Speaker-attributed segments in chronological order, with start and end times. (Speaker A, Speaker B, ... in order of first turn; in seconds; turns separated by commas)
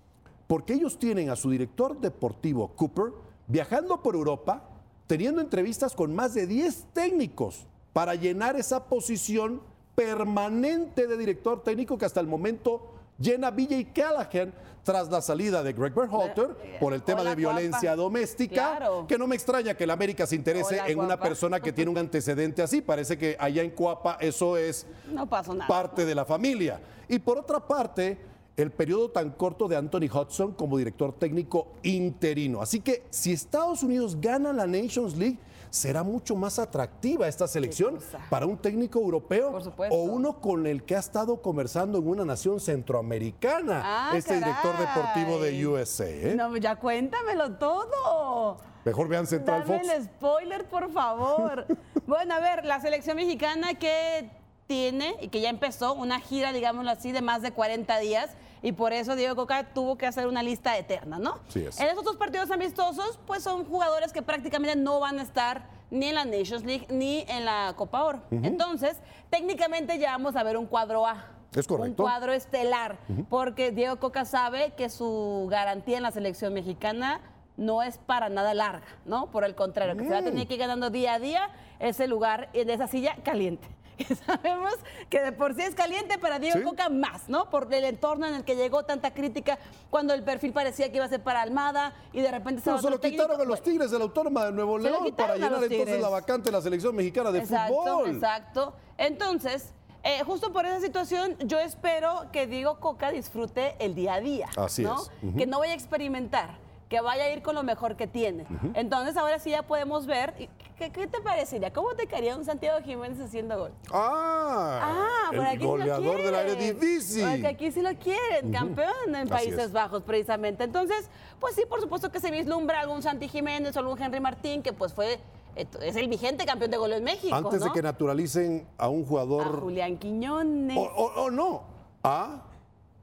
Speaker A: 0.5-24.9, Speaker B: 16.1-17.9, Speaker B: 18.5-19.1, Speaker B: 20.5-21.9, Speaker B: 25.1-26.0, Speaker A: 25.6-46.4, Speaker B: 37.6-38.3, Speaker B: 39.5-40.3, Speaker B: 43.8-45.7, Speaker B: 46.3-48.6, Speaker A: 48.8-49.9, Speaker B: 49.3-93.7, Speaker A: 61.5-61.8, Speaker A: 68.3-68.6, Speaker A: 71.5-72.1, Speaker A: 79.8-80.5, Speaker A: 86.5-86.7, Speaker A: 92.6-98.3, Speaker B: 94.8-96.2, Speaker B: 97.3-113.8, Speaker A: 104.5-105.5, Speaker A: 113.9-117.5, Speaker B: 114.8-127.8, Speaker A: 118.4-119.7, Speaker A: 127.3-129.7, Speaker B: 129.4-130.9, Speaker A: 130.7-132.4